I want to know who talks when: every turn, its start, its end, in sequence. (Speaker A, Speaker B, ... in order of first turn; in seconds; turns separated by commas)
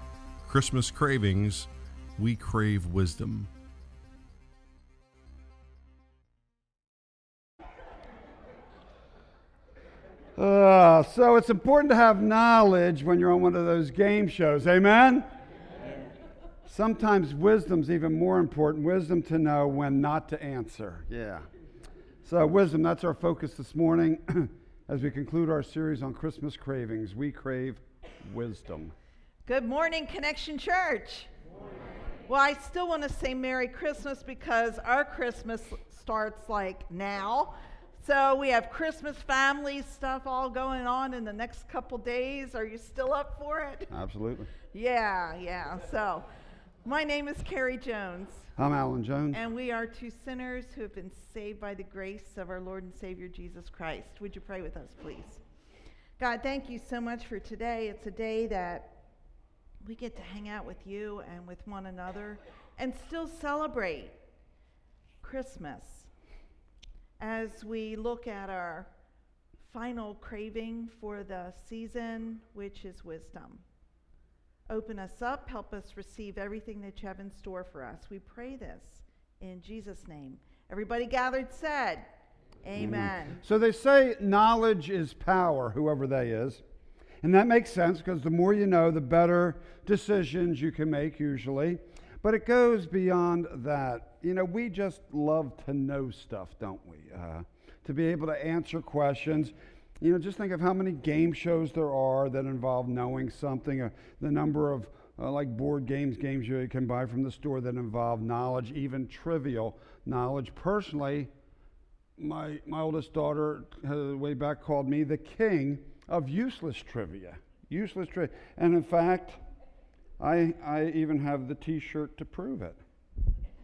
Speaker A: 0.4-3.5, Speaker B: 10.3-15.3, Speaker B: 16.6-21.5, Speaker B: 22.2-28.9, Speaker C: 29.4-31.3, Speaker C: 32.3-43.9, Speaker B: 43.9-44.5, Speaker C: 44.7-46.2, Speaker C: 46.8-48.5, Speaker B: 48.5-49.4, Speaker C: 49.3-55.4, Speaker C: 56.2-59.0, Speaker C: 59.8-64.2, Speaker C: 65.2-66.1, Speaker C: 67.2-68.9, Speaker C: 69.6-73.6, Speaker C: 74.7-82.1, Speaker C: 82.6-83.4, Speaker B: 82.8-86.6, Speaker B: 87.2-111.3, Speaker B: 112.2-119.4, Speaker B: 120.2-122.8